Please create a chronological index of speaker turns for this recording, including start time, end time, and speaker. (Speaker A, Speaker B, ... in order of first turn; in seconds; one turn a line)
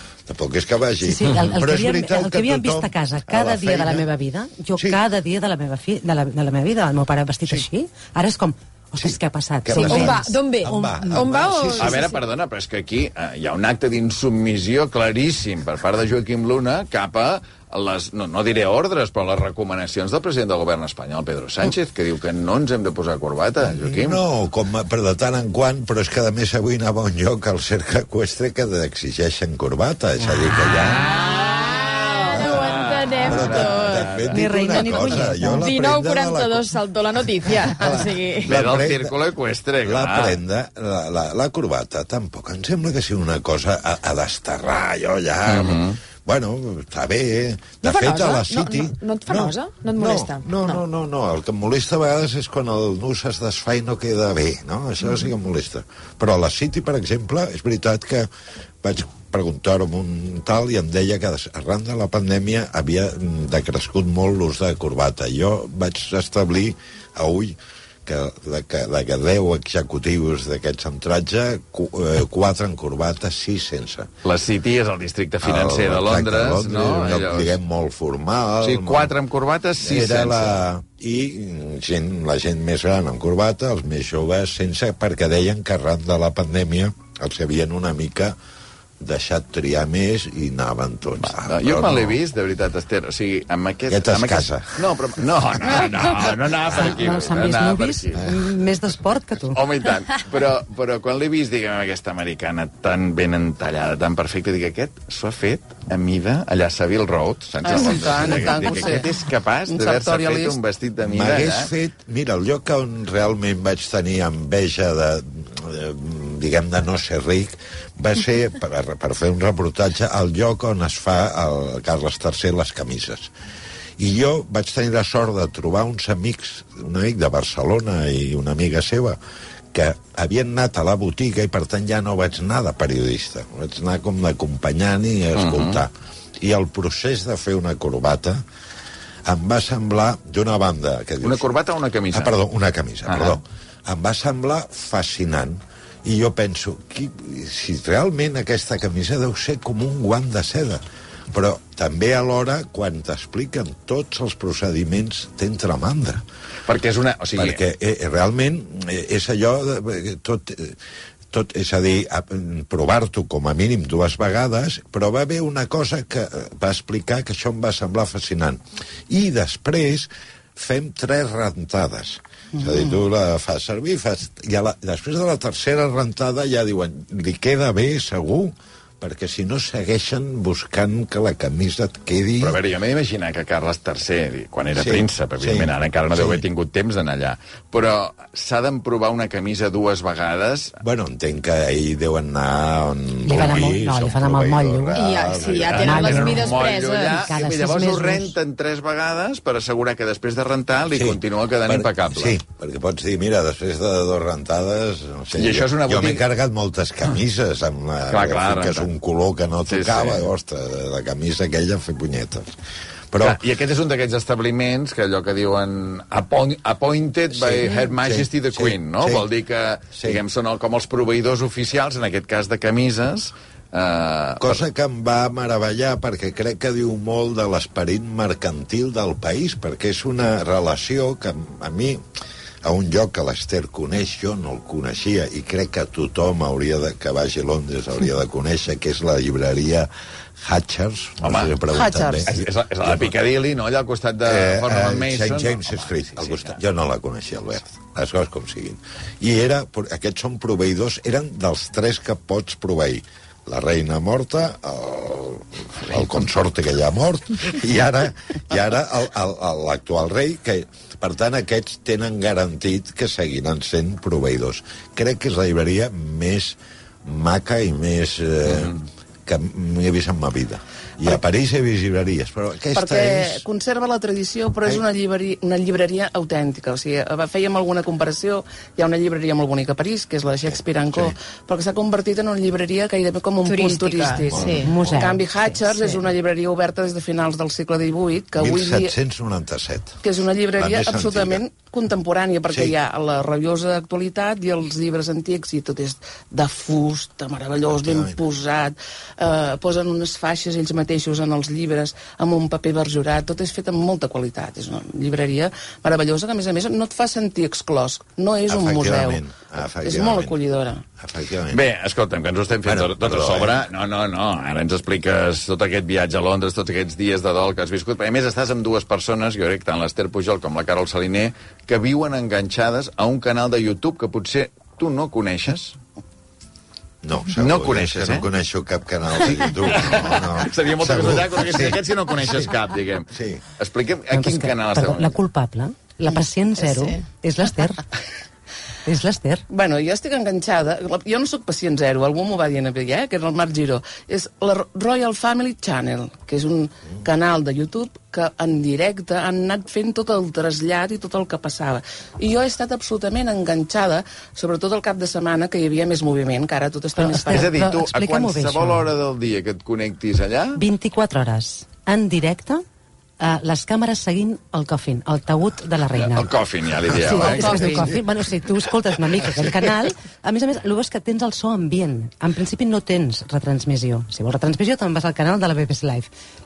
Speaker A: 0.3-4.1
Speaker B: 1.0-11.2
Speaker A: 9.0-12.1
Speaker C: 9.8-12.2
Speaker D: 11.8-24.2
Speaker A: 23.7-31.0
Speaker D: 30.6-34.4
Speaker C: 31.5-38.5
Speaker A: 33.2-36.7
Speaker B: 34.3-35.7
Speaker A: 37.4-39.1
Speaker D: 38.4-40.4
Speaker A: 39.8-58.3
Speaker D: 45.5-46.0
Speaker C: 47.8-50.8
Speaker A: 58.8-74.1
Speaker D: 74.2-77.5
Speaker A: 75.4-79.1
Speaker D: 78.6-80.6
Speaker A: 79.8-88.3
Speaker A: 89.0-92.2
Speaker D: 91.2-98.2
Speaker A: 93.9-94.8
Speaker B: 96.7-99.6
Speaker A: 96.8-97.1
Speaker D: 99.5-111.7
Speaker E: 107.6-109.1
Speaker E: 109.7-110.6
Speaker A: 111.0-123.3
Speaker A: 124.0-129.2
Speaker A: 129.7-138.4
Speaker D: 135.3-135.8
Speaker A: 139.2-141.5
Speaker D: 141.2-142.3
Speaker A: 142.1-156.2
Speaker D: 143.1-143.4
Speaker D: 156.7-157.6
Speaker A: 157.4-160.8
Speaker A: 161.3-182.6
Speaker E: 172.5-172.8
Speaker D: 182.4-190.7
Speaker A: 184.8-186.4
Speaker A: 190.8-196.2
Speaker B: 193.2-195.0
Speaker C: 194.9-197.3
Speaker D: 195.5-202.4
Speaker B: 195.8-198.3
Speaker A: 200.9-212.6
Speaker D: 205.3-206.2
Speaker D: 208.1-208.9
Speaker D: 209.7-210.3
Speaker A: 213.1-213.4
Speaker D: 213.2-224.6
Speaker A: 217.3-219.3
Speaker A: 219.9-220.2
Speaker A: 224.4-232.0
Speaker A: 232.6-243.1
Speaker D: 241.2-241.6
Speaker E: 241.7-242.2
Speaker D: 242.3-246.6
Speaker A: 244.2-268.7
Speaker D: 268.4-268.8
Speaker A: 269.2-273.4
Speaker E: 272.7-288.9
Speaker A: 280.5-281.1
Speaker C: 283.4-284.8
Speaker A: 284.3-284.6
Speaker B: 284.5-285.6
Speaker A: 288.4-290.0
Speaker E: 290.0-309.2
Speaker A: 290.5-291.4
Speaker A: 292.5-292.7
Speaker A: 297.7-298.2
Speaker A: 308.5-310.4
Speaker E: 309.8-310.8
Speaker A: 311.0-311.6
Speaker D: 311.5-325.8
Speaker A: 312.6-313.6
Speaker A: 327.0-332.5
Speaker D: 327.4-328.2
Speaker D: 329.6-335.2
Speaker A: 333.1-333.4
Speaker B: 334.1-337.8
Speaker E: 336.6-336.9
Speaker B: 338.9-339.4
Speaker E: 339.5-357.5
Speaker B: 356.9-358.9
Speaker D: 357.3-360.6
Speaker B: 360.6-362.6
Speaker B: 363.2-366.3
Speaker D: 365.9-367.9
Speaker B: 367.0-376.1
Speaker E: 367.2-367.9